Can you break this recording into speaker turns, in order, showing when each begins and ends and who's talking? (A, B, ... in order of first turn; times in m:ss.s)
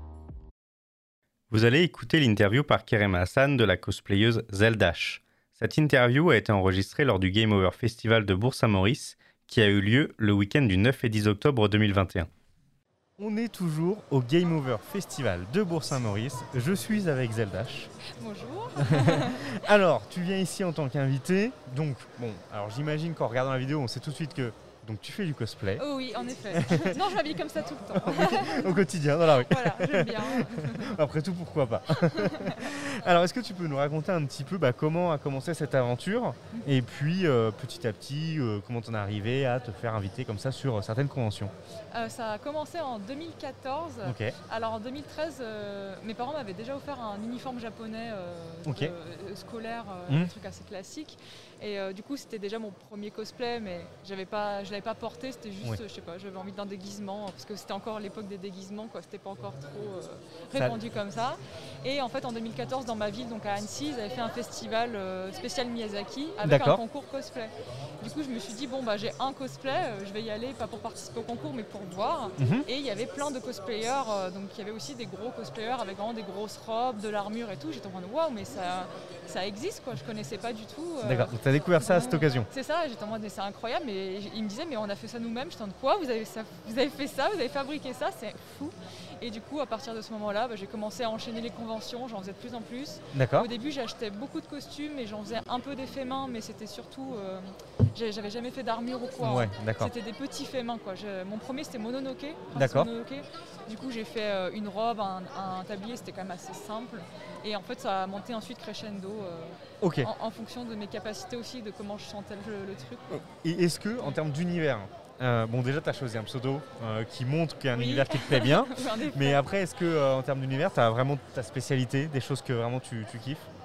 0:01.5-0:12.3 A
0:13.2-0:17.9 A
0:18.1-0:19.6 B
0:18.8-0:25.8 A
0:25.8-0:31.0 B
0:26.5-0:27.1 A
0:27.9-0:41.5 A
0:31.9-0:32.8 B
0:41.9-1:53.2 B
0:44.0-0:44.4 A
0:48.6-0:48.9 A
0:50.1-0:50.3 A
1:06.4-1:06.8 A
1:12.4-1:12.7 A
1:21.0-1:22.5 A
1:33.1-1:33.5 A
1:39.2-1:39.9 A
1:42.6-1:42.9 A
1:49.8-1:50.1 A
1:53.1-2:03.5 A
1:57.7-1:59.4 B